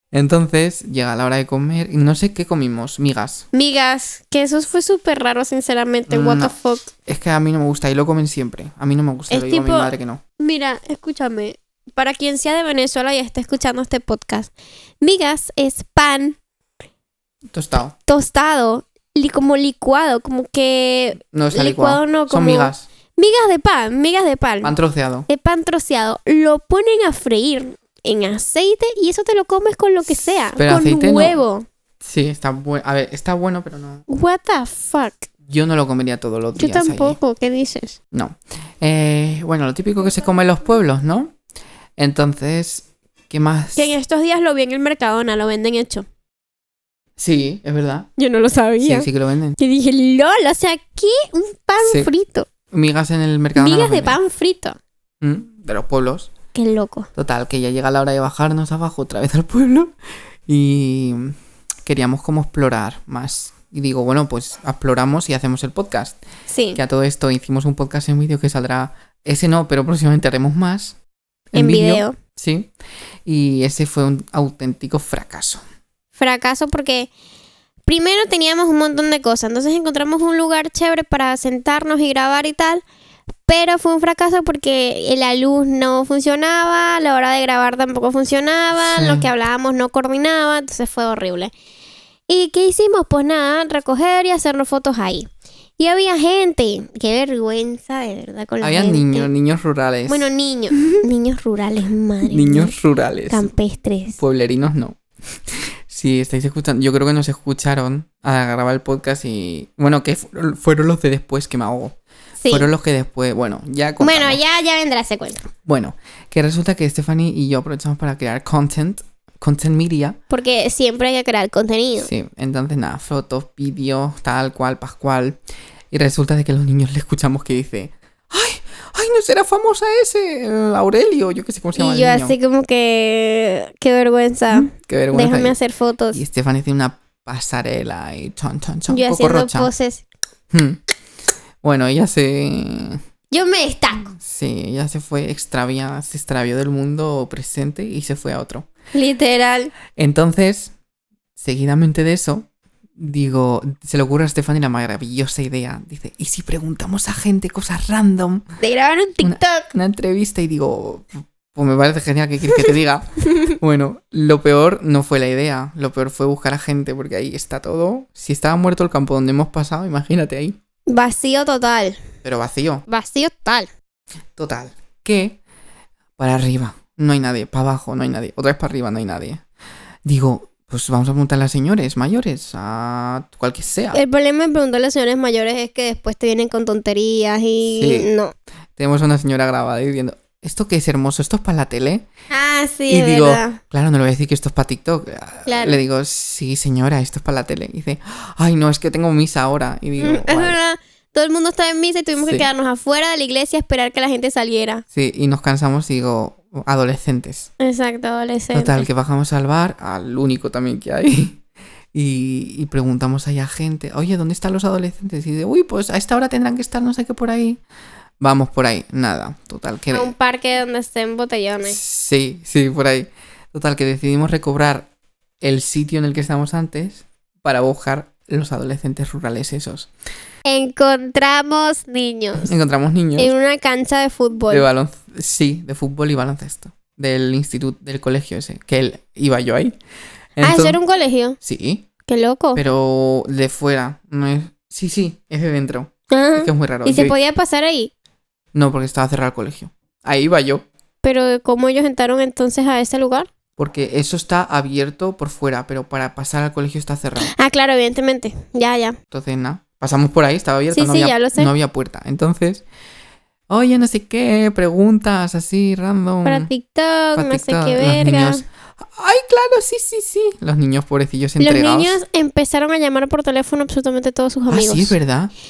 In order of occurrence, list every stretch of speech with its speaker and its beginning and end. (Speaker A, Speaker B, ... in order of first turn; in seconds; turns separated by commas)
Speaker A: 0.1-3.5, Speaker B: 3.5-6.9, Speaker A: 6.1-10.2, Speaker B: 9.3-16.4, Speaker A: 17.5-17.9, Speaker B: 18.1-24.8, Speaker A: 21.3-22.9, Speaker A: 24.6-25.3, Speaker B: 25.3-31.7, Speaker A: 30.6-31.4, Speaker A: 32.0-34.0, Speaker B: 34.1-35.3, Speaker A: 35.5-37.2, Speaker B: 36.6-38.0, Speaker A: 38.1-41.3, Speaker A: 42.0-43.9, Speaker B: 43.8-46.1, Speaker A: 47.2-48.1, Speaker B: 48.2-49.1, Speaker A: 48.8-49.6, Speaker B: 49.6-52.5, Speaker A: 51.8-52.1, Speaker A: 52.7-54.2, Speaker B: 53.6-54.8, Speaker A: 55.2-56.3, Speaker B: 56.5-57.1, Speaker A: 57.1-59.9, Speaker A: 60.5-66.2, Speaker B: 66.5-66.8, Speaker A: 66.8-71.0, Speaker A: 71.5-72.7, Speaker B: 71.5-72.2, Speaker A: 73.3-75.6, Speaker B: 76.2-77.1, Speaker B: 77.9-82.8, Speaker B: 83.5-91.5, Speaker A: 88.8-89.3, Speaker B: 92.3-99.3, Speaker A: 98.6-100.3, Speaker B: 100.1-102.8, Speaker A: 102.2-103.5, Speaker B: 103.3-104.2, Speaker A: 104.2-112.0, Speaker B: 112.4-112.7, Speaker A: 112.5-114.4, Speaker B: 114.0-115.5, Speaker A: 115.7-120.2, Speaker B: 120.3-122.1, Speaker A: 122.0-125.4, Speaker A: 125.9-132.4, Speaker B: 131.8-136.2, Speaker A: 134.5-135.6, Speaker A: 136.1-139.7, Speaker B: 138.9-140.0, Speaker A: 140.5-140.8, Speaker A: 141.6-143.0, Speaker B: 143.3-144.2, Speaker A: 144.2-148.7, Speaker B: 148.9-149.7, Speaker A: 150.0-150.7, Speaker A: 151.4-158.4, Speaker B: 158.6-159.7, Speaker A: 159.2-170.6, Speaker B: 170.9-172.0, Speaker A: 172.2-172.9, Speaker B: 172.9-173.7, Speaker A: 174.4-175.4, Speaker A: 176.2-179.4, Speaker A: 180.1-184.0, Speaker B: 183.9-188.3, Speaker A: 187.7-188.1, Speaker A: 188.8-192.1, Speaker B: 192.3-193.6, Speaker A: 192.9-200.6, Speaker B: 195.5-195.8, Speaker B: 200.0-204.8, Speaker A: 202.2-202.5, Speaker A: 204.9-207.5, Speaker B: 207.6-208.9, Speaker A: 208.5-211.4, Speaker A: 211.9-217.6, Speaker A: 218.2-220.1, Speaker B: 219.9-221.8, Speaker A: 221.6-224.9, Speaker A: 225.4-229.9, Speaker B: 230.5-232.5, Speaker A: 232.4-233.3, Speaker B: 233.2-234.7, Speaker A: 234.5-239.8, Speaker A: 240.4-240.8, Speaker B: 240.4-241.4, Speaker A: 241.4-241.9, Speaker B: 242.1-242.6, Speaker A: 242.6-247.2, Speaker B: 246.1-247.9, Speaker A: 248.5-250.7, Speaker B: 251.0-253.3, Speaker A: 253.6-257.3, Speaker B: 257.2-259.0, Speaker A: 259.1-262.6, Speaker B: 260.7-261.5, Speaker A: 263.5-266.5, Speaker B: 266.2-268.4, Speaker A: 267.1-272.0, Speaker B: 271.4-275.0, Speaker A: 274.5-275.3